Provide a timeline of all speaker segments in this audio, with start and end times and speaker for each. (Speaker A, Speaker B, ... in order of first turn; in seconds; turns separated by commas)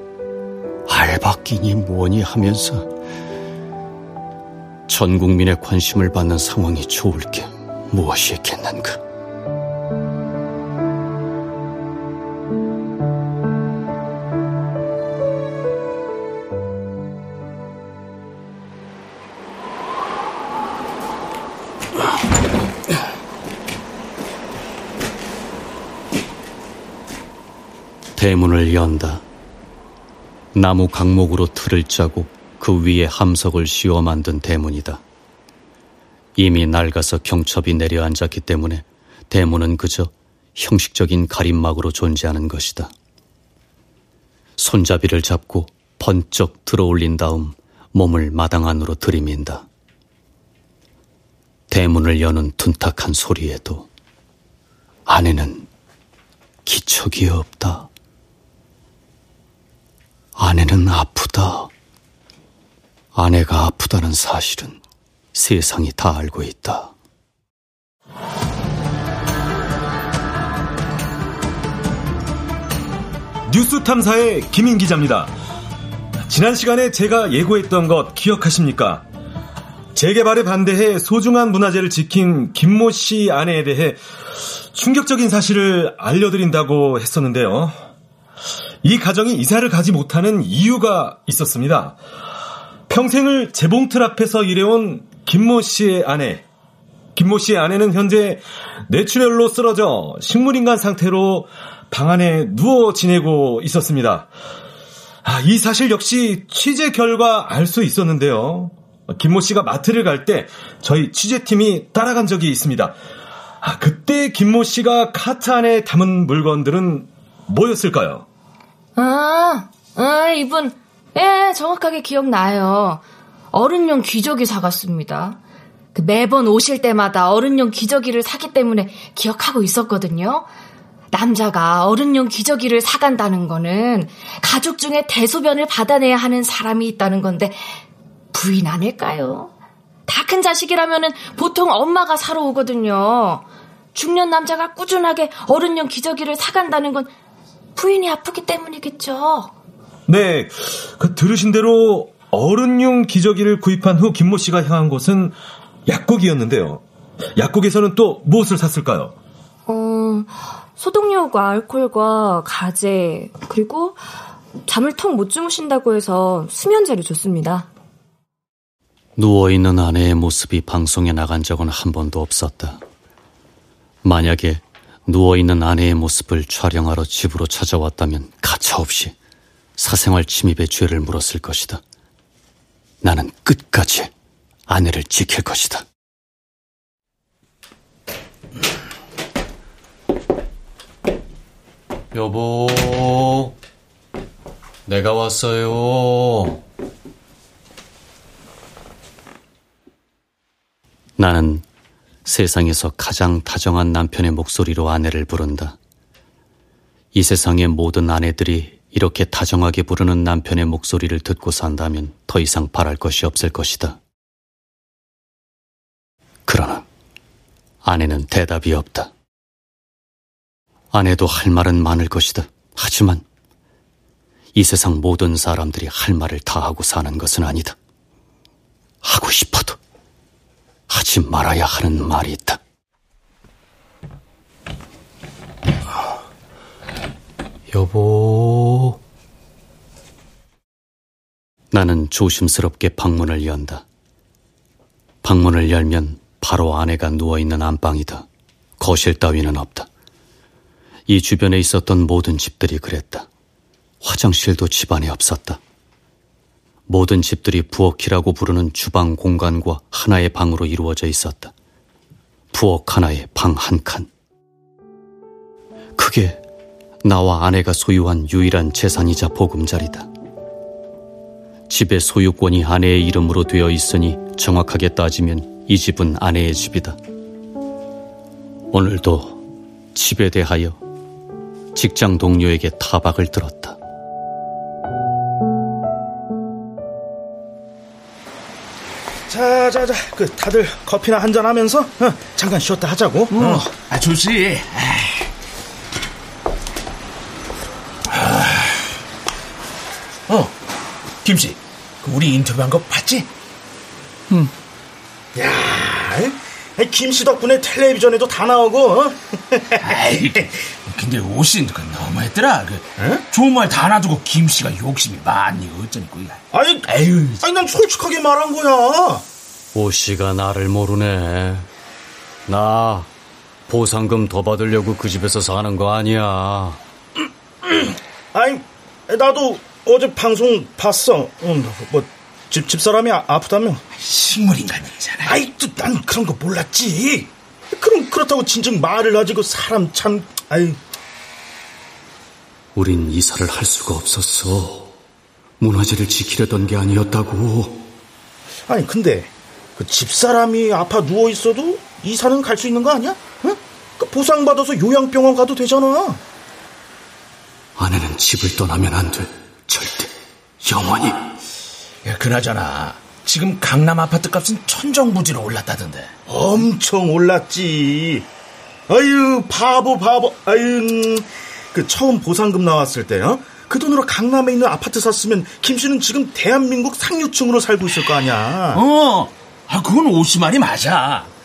Speaker A: 0.9-2.9, Speaker A: 4.9-9.0, Speaker A: 28.2-29.2, Speaker A: 30.5-35.0, Speaker A: 36.4-42.9, Speaker A: 44.6-49.6, Speaker A: 51.7-53.9, Speaker A: 55.1-55.7, Speaker A: 56.6-57.9, Speaker A: 60.4-61.7, Speaker A: 63.1-64.8, Speaker A: 65.3-66.9, Speaker B: 73.5-75.3, Speaker B: 76.3-79.0, Speaker B: 79.9-84.0, Speaker B: 84.7-87.7, Speaker B: 88.8-92.0, Speaker B: 92.9-96.4, Speaker B: 97.2-104.3, Speaker B: 105.2-113.0, Speaker B: 113.6-118.2, Speaker C: 119.0-125.4, Speaker C: 125.9-130.5, Speaker C: 131.1-137.7, Speaker C: 138.3-139.5, Speaker C: 140.1-147.1, Speaker C: 147.8-149.5, Speaker B: 150.1-155.3, Speaker B: 155.8-156.8, Speaker B: 157.4-159.1, Speaker C: 159.7-164.0, Speaker C: 164.7-167.7, Speaker A: 169.2-172.8, Speaker A: 174.0-179.1, Speaker A: 179.8-181.8, Speaker A: 183.0-184.1, Speaker A: 184.7-185.8, Speaker A: 192.1-193.5, Speaker A: 194.8-196.6, Speaker A: 201.2-201.6, Speaker A: 202.2-205.8, Speaker A: 207.1-214.0, Speaker A: 216.5-216.8, Speaker A: 217.8-219.1, Speaker A: 220.9-223.2, Speaker A: 224.5-227.8, Speaker A: 229.0-229.8, Speaker A: 230.9-232.6, Speaker A: 237.7-238.9, Speaker A: 241.7-243.8, Speaker A: 245.2-248.2, Speaker A: 248.8-249.9, Speaker A: 251.1-253.3, Speaker A: 254.0-255.6, Speaker A: 256.9-261.5, Speaker A: 262.5-264.1, Speaker A: 266.0-266.4, Speaker A: 267.0-270.1, Speaker A: 271.7-277.0, Speaker A: 278.7-279.4, Speaker A: 279.9-280.8, Speaker A: 281.7-283.8, Speaker D: 289.3-293.7, Speaker E: 293.3-295.3, Speaker E: 298.1-298.8, Speaker E: 300.3-300.5, Speaker E: 301.2-303.3, Speaker D: 305.3-309.9, Speaker E: 309.8-317.5, Speaker D: 313.0-313.2, Speaker D: 316.5-316.9, Speaker D: 317.4-319.2, Speaker A: 319.7-321.7, Speaker A: 322.5-323.1, Speaker A: 323.7-326.8, Speaker D: 328.3-333.8, Speaker E: 334.0-335.4, Speaker D: 335.2-340.8, Speaker A: 342.7-344.9, Speaker A: 345.6-347.8, Speaker D: 348.7-356.2, Speaker A: 357.8-361.2, Speaker E: 362.0-366.1, Speaker D: 366.3-368.3, Speaker D: 368.9-378.8, Speaker E: 378.7-381.3